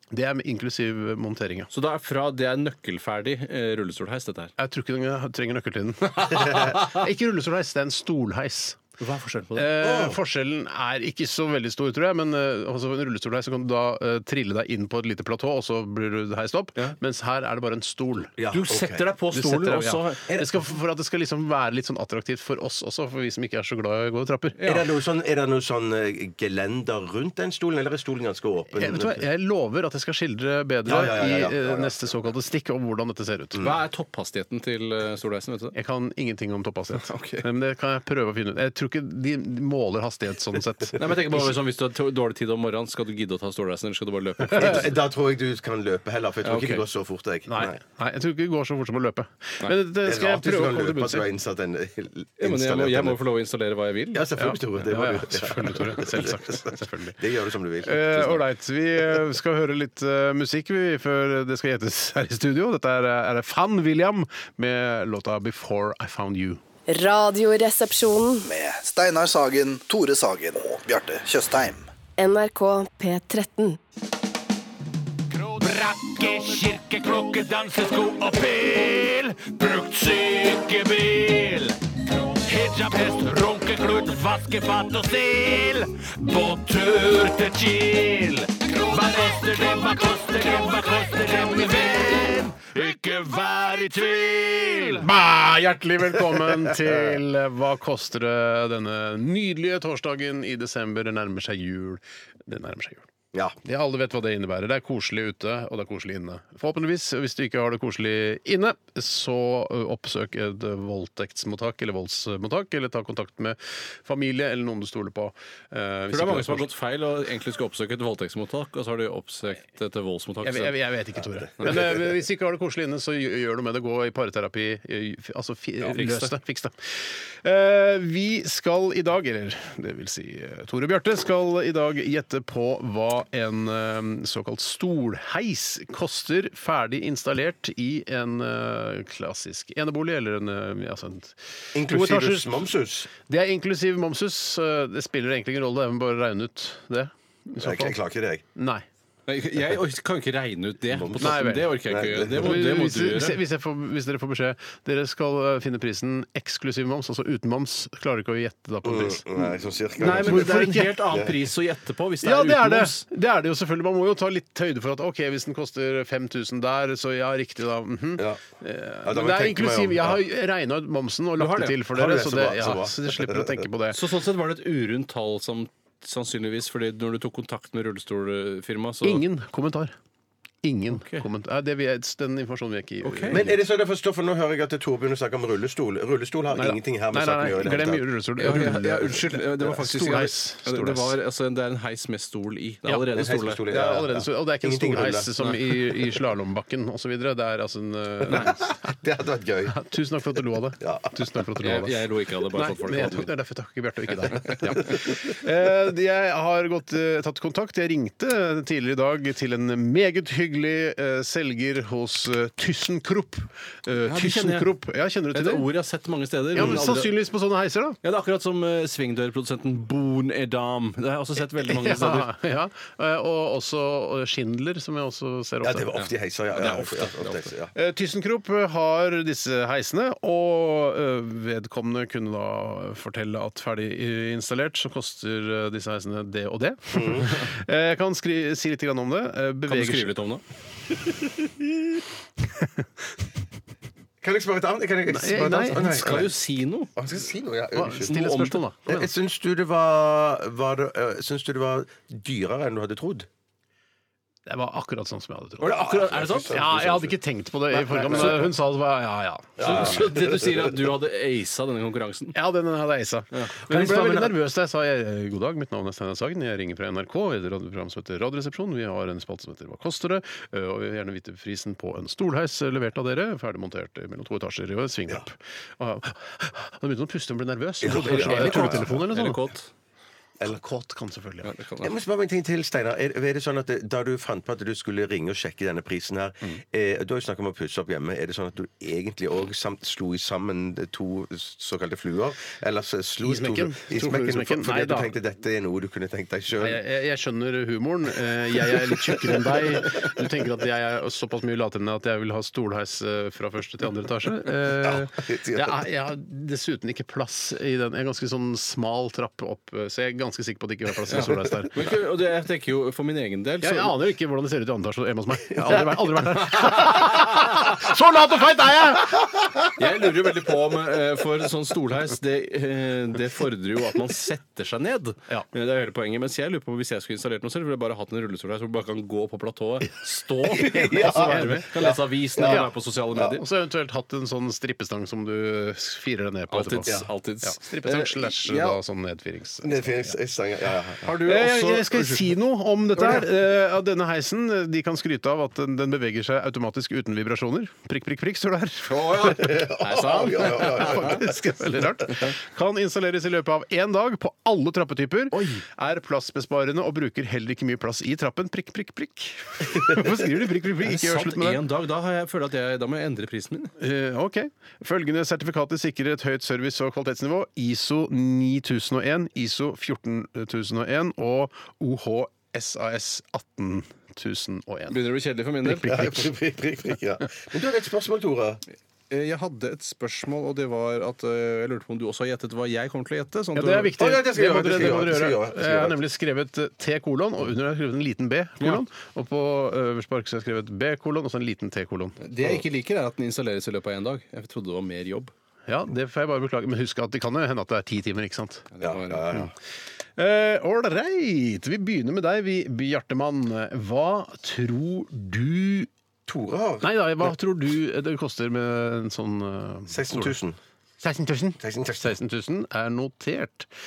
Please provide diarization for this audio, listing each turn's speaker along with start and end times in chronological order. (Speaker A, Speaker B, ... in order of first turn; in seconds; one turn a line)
Speaker A: 0.1-1.7
Speaker B: 1.7-4.5
Speaker A: 4.6-8.8
Speaker B: 9.0-9.8
Speaker A: 9.6-18.3
Speaker C: 9.8-10.2
Speaker C: 18.4-19.1
Speaker B: 18.5-20.2
Speaker A: 19.3-24.6
Speaker C: 20.3-20.5
Speaker B: 24.6-24.9
Speaker C: 24.6-29.2
Speaker A: 28.8-33.6
Speaker C: 30.9-32.1
Speaker B: 33.6-35.8
Speaker A: 35.7-41.5
Speaker B: 37.0-37.5
Speaker B: 41.0-45.0
Speaker A: 44.5-44.8
Speaker C: 44.5-47.8
Speaker B: 46.5-46.8
Speaker A: 47.5-51.3
Speaker C: 50.0-53.2
Speaker B: 52.4-54.2
Speaker C: 54.1-58.4
Speaker A: 54.4-57.2
Speaker A: 57.8-66.6
Speaker D: 66.9-68.5
Speaker E: 68.5-71.9
Speaker D: 72.2-73.8
Speaker F: 75.4-81.7
Speaker F: 82.5-94.9
Speaker A: 94.9-103.1
Speaker A: 103.6-116.7
Speaker B: 116.1-120.8
Speaker A: 120.4-142.7
Speaker B: 125.8-126.3
Speaker C: 141.8-143.1
Speaker A: 143.2-148.0
Speaker C: 147.6-148.4
Speaker A: 148.6-148.8
Speaker B: 149.3-153.4
Speaker C: 150.9-152.5
Speaker A: 151.2-161.0
Speaker C: 158.8-161.4
Speaker B: 160.0-163.0
Speaker A: 162.2-174.0
Speaker C: 169.0-170.2
Speaker B: 171.4-171.8
Speaker C: 171.9-173.7
Speaker B: 173.9-179.2
Speaker A: 179.0-180.0
Speaker A: 180.6-183.6
Speaker B: 180.9-181.2
Speaker B: 183.0-183.5
Speaker C: 183.3-188.1
Speaker A: 186.5-191.2
Speaker B: 188.4-193.7
Speaker A: 192.9-193.1
Speaker C: 193.1-195.3
Speaker A: 193.7-198.8
Speaker C: 198.3-199.8
Speaker A: 199.7-215.7
Speaker C: 200.8-201.1
Speaker B: 201.6-203.3
Speaker B: 204.3-204.9
Speaker B: 214.0-214.7
Speaker B: 215.3-217.1
Speaker A: 216.5-218.0
Speaker B: 218.0-222.3
Speaker A: 221.5-225.9
Speaker C: 225.6-227.7
Speaker B: 226.0-227.5
Speaker A: 227.8-240.1
Speaker C: 236.9-237.3
Speaker B: 239.7-240.4
Speaker C: 244.2-246.3
Speaker A: 245.1-246.2
Speaker B: 245.8-246.9
Speaker C: 247.0-248.3
Speaker A: 247.7-249.1
Speaker B: 248.1-248.6
Speaker C: 248.9-253.3
Speaker A: 254.5-255.9
Speaker B: 255.6-256.8
Speaker C: 255.6-257.1
Speaker A: 256.5-260.1
Speaker C: 257.7-258.5
Speaker C: 259.6-260.6
Speaker B: 259.6-262.4
Speaker A: 262.3-279.4
Speaker C: 263.7-264.4
Speaker C: 277.8-279.0
Speaker B: 277.9-279.7
Speaker A: 280.4-281.6
Speaker B: 281.4-281.9
Speaker C: 281.8-296.8
Speaker A: 293.2-295.1
Speaker A: 296.6-311.9
Speaker C: 304.8-305.8
Speaker B: 311.1-313.9
Speaker A: 313.6-319.2
Speaker B: 319.8-333.4
Speaker C: 330.5-332.6
Speaker A: 330.9-331.8
Speaker A: 332.4-332.7
Speaker A: 333.2-340.1
Speaker B: 336.5-338.8
Speaker C: 339.6-341.0
Speaker B: 341.0-342.3
Speaker A: 341.1-349.6
Speaker B: 348.9-351.2
Speaker C: 349.2-351.3
Speaker A: 350.3-361.6
Speaker B: 355.3-355.6
Speaker B: 360.8-363.7
Speaker A: 363.8-375.0
Speaker B: 374.9-376.1
Speaker A: 375.6-376.2
Speaker C: 375.8-378.6
Speaker B: 379.1-384.0
Speaker A: 383.6-392.2
Speaker C: 384.0-386.0
Speaker B: 392.2-395.3
Speaker A: 395.7-398.7
Speaker B: 398.7-399.4
Speaker C: 398.8-399.5
Speaker A: 400.1-405.9
Speaker C: 406.3-406.9
Speaker A: 406.8-410.4
Speaker C: 409.9-410.6
Speaker A: 411.0-413.7
Speaker C: 411.6-412.1